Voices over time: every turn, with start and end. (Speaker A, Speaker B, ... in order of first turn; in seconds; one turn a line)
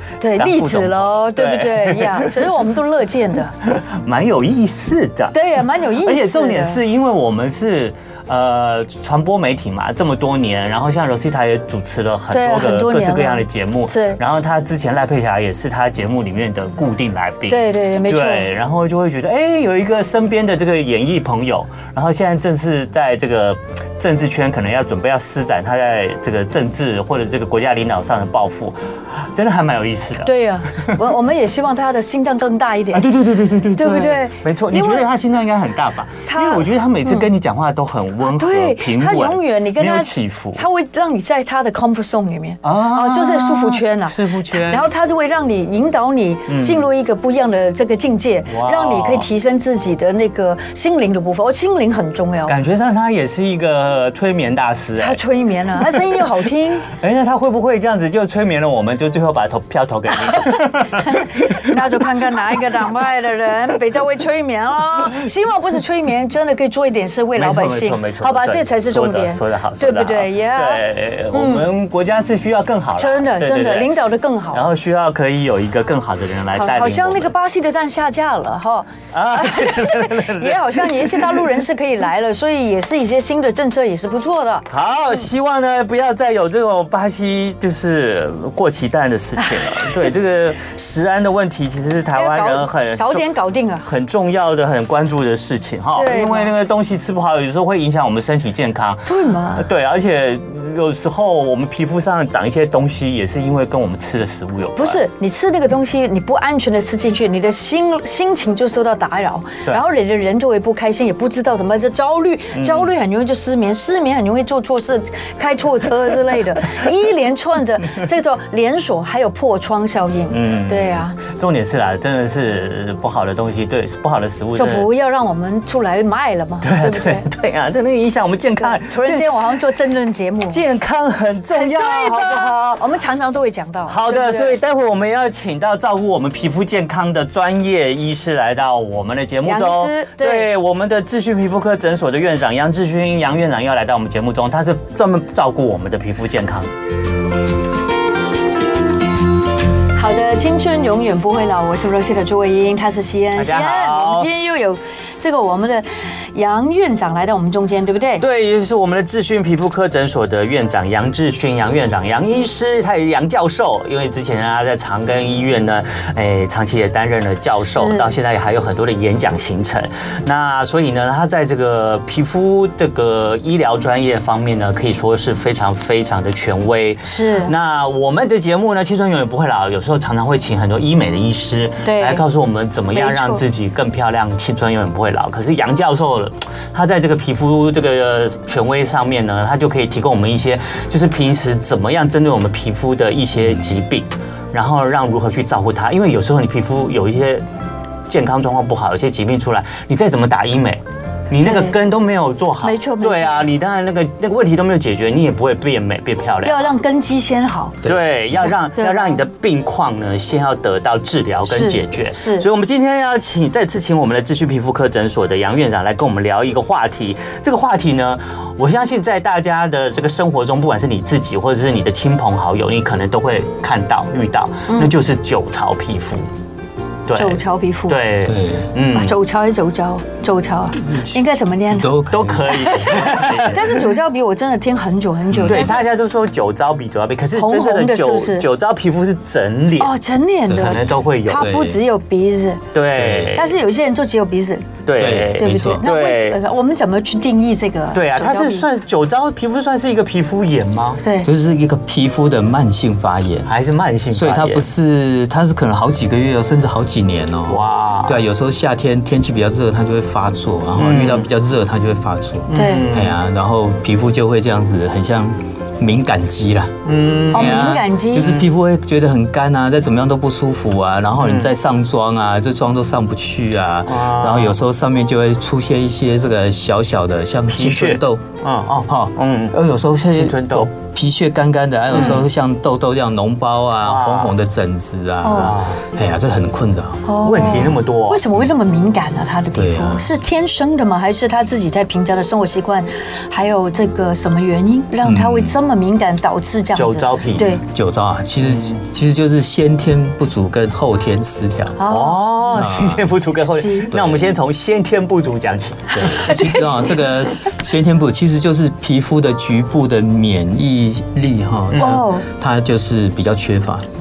Speaker A: 0.2-3.5
Speaker B: 0.4-2.5
Speaker B: 3.6-5.5
Speaker A: 5.3-6.8
Speaker B: 6.0-28.8
Speaker A: 12.3-14.2
Speaker A: 17.5-18.5
Speaker B: 29.3-31.0
Speaker A: 30.2-33.1
Speaker B: 32.9-40.6
Speaker A: 33.8-35.1
Speaker A: 36.3-37.3
Speaker A: 38.2-52.6
Speaker B: 42.6-44.9
Speaker B: 46.5-46.9
Speaker B: 48.5-49.3
Speaker B: 52.5-55.2
Speaker A: 55.0-56.9
Speaker B: 55.9-56.2
Speaker B: 56.9-61.9
Speaker A: 60.3-71.7
Speaker B: 67.4-73.9
Speaker A: 73.0-74.7
Speaker B: 74.5-77.3
Speaker A: 76.5-84.7
Speaker B: 79.1-81.6
Speaker B: 84.7-93.3
Speaker A: 89.4-89.9
Speaker A: 92.1-93.9
Speaker B: 93.8-105.0
Speaker A: 96.0-96.5
Speaker A: 99.1-99.7
Speaker A: 104.8-121.2
Speaker B: 112.5-112.9
Speaker B: 120.3-124.9
Speaker A: 124.6-127.3
Speaker B: 126.6-129.6
Speaker A: 128.6-130.6
Speaker B: 130.5-132.8
Speaker A: 131.5-134.6
Speaker B: 133.9-146.7
Speaker A: 139.5-140.5
Speaker A: 150.0-158.2
Speaker B: 153.3-154.3
Speaker B: 158.2-197.4
Speaker A: 167.8-168.1
Speaker A: 177.1-177.5
Speaker A: 181.8-182.2
Speaker A: 182.9-183.4
Speaker B: 198.1-206.7
Speaker A: 201.4-201.8
Speaker A: 202.6-203.5
Speaker A: 206.4-207.8
Speaker B: 207.8-226.3
Speaker A: 208.4-209.2
Speaker A: 211.5-212.5
Speaker A: 224.7-224.9
Speaker B: 227.1-229.2
Speaker A: 227.2-228.0
Speaker C: 228.2-228.7
Speaker A: 228.9-231.9
Speaker C: 230.9-231.2
Speaker C: 231.7-233.5
Speaker B: 232.1-233.8
Speaker A: 232.5-235.9
Speaker C: 235.3-235.8
Speaker B: 235.4-239.9
Speaker A: 237.3-238.4
Speaker A: 239.8-242.6
Speaker C: 240.5-241.8
Speaker B: 240.6-241.5
Speaker B: 242.7-243.6
Speaker C: 243.0-243.3
Speaker A: 243.3-244.7
Speaker B: 244.9-246.4
Speaker C: 245.0-245.8
Speaker A: 245.3-248.7
Speaker B: 247.9-251.0
Speaker A: 251.0-251.3
Speaker C: 251.2-253.5
Speaker B: 253.5-254.7
Speaker C: 254.1-266.7
Speaker B: 257.5-258.2
Speaker B: 260.8-261.3
Speaker B: 262.5-263.2
Speaker A: 262.5-262.9
Speaker B: 266.9-268.5
Speaker C: 267.3-278.2
Speaker A: 267.3-268.3
Speaker B: 271.2-271.5
Speaker B: 273.9-274.6
Speaker B: 277.5-279.6
Speaker C: 278.9-287.1
Speaker B: 280.1-280.7
Speaker B: 281.9-282.3
Speaker B: 283.8-284.3
Speaker A: 285.2-285.6
Speaker B: 285.3-285.8
Speaker A: 287.1-297.6
Speaker B: 287.2-288.2
Speaker C: 289.5-290.1
Speaker C: 295.0-295.6
Speaker B: 296.7-297.6
Speaker C: 297.7-301.8
Speaker B: 298.4-298.8
Speaker A: 301.8-302.5
Speaker B: 301.9-306.4
Speaker C: 302.5-303.1
Speaker A: 303.5-303.9
Speaker C: 303.9-304.4
Speaker C: 305.9-313.9
Speaker A: 306.1-306.6
Speaker B: 311.7-312.0
Speaker A: 311.8-312.2